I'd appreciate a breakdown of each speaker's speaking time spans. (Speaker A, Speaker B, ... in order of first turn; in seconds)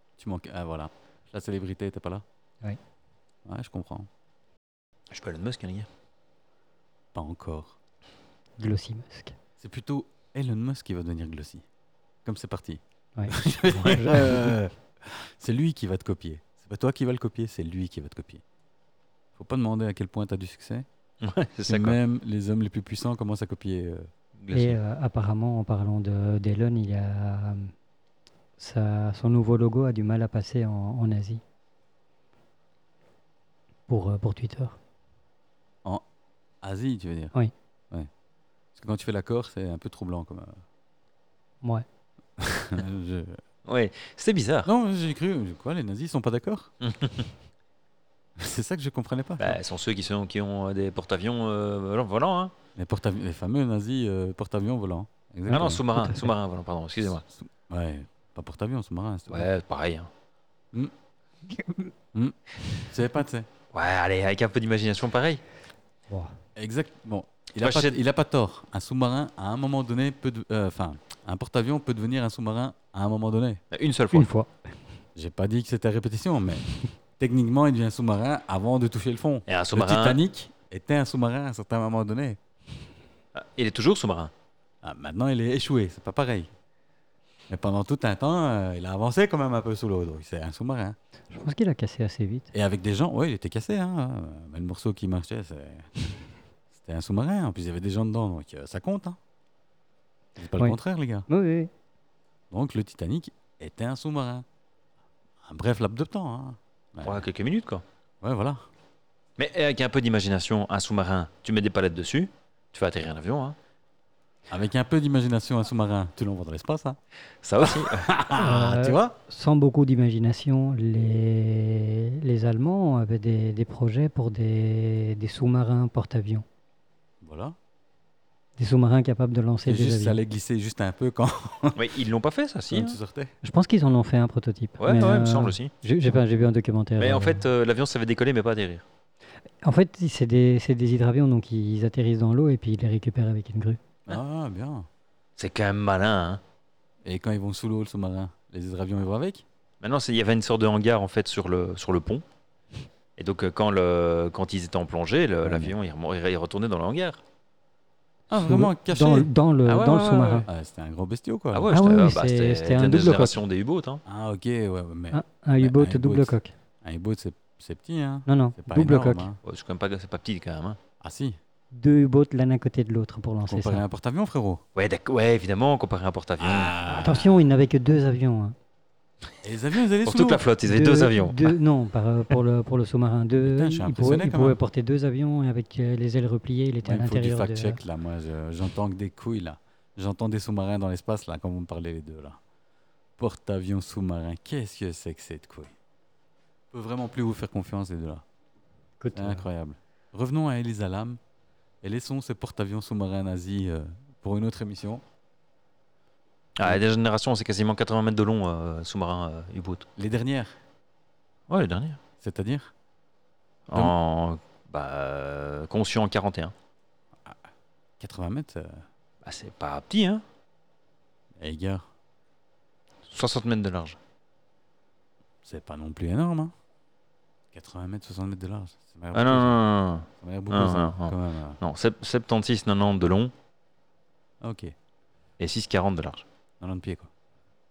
Speaker A: 0.2-2.2, 3.5-4.1, 7.1-7.8, 9.6-11.7, 12.2-18.4, 19.3-20.9, 21.6-24.1, 36.6-37.3, 38.7-40.6, 42.4-43.4, 44.6-46.7, 48.4-49.6, 52.8-55.9, 57.0-59.5, 62.1-63.5, 66.5-73.6, 75.1-76.6, 77.2-82.4, 84.8-86.5, 87.5-91.0, 92.5-96.2, 96.7-99.2, 100.4-101.3, 102.5-104.5, 105.4-107.2, 108.2-108.6, 114.5-117.0, 117.6-119.1, 127.2-127.5, 129.7-131.9, 132.7-133.3, 144.1-144.9, 147.0-149.4, 155.4-155.7, 158.3-159.3, 160.5-161.7, 164.0-169.4, 171.0-171.4, 173.4-174.6, 176.4-177.3, 179.4-180.5, 183.4-184.6, 186.8-192.4, 193.2-195.7, 196.7-198.2, 199.1-201.2, 201.8-205.0, 209.9-210.5, 212.2-212.7, 217.2-218.8, 221.4-221.8, 225.4-226.5, 227.5-229.6, 230.2-231.6, 234.4-234.7, 236.6-237.1
Speaker B: 5.1-5.9, 13.8-14.2, 21.2-22.0, 24.4-24.8, 43.6-44.7, 46.8-47.3, 49.4-52.5, 55.5-57.2, 59.3-60.1, 63.7-65.4, 67.6-68.0, 73.7-74.3, 79.5-80.2, 83.3-84.3, 107.0-107.8, 109.4-113.5, 117.4-118.1, 131.8-133.0, 134.8-135.7, 137.0-138.8, 145.4-146.4, 149.8-152.2, 153.2-157.2, 159.6-160.5, 161.5-164.0, 169.4-170.8, 174.7-176.8, 180.0-181.6, 206.6-209.9, 211.5-212.0, 213.7-216.5, 219.2-220.2, 223.1-224.0, 229.1-233.3, 235.4-236.2
Speaker C: 8.6-9.4, 13.2-14.2, 24.5-27.7, 28.6-31.4, 33.9-34.8, 55.5-56.3, 61.5-61.9, 66.1-66.3, 74.1-74.5, 91.3-92.5, 100.6-101.7, 118.3-126.4, 128.6-130.2, 133.4-137.4, 139.6-143.8, 158.3-160.5, 161.7-163.4, 165.1-166.5, 168.3-169.3, 171.7-173.8, 176.8-178.6, 180.6-187.8, 199.0-199.5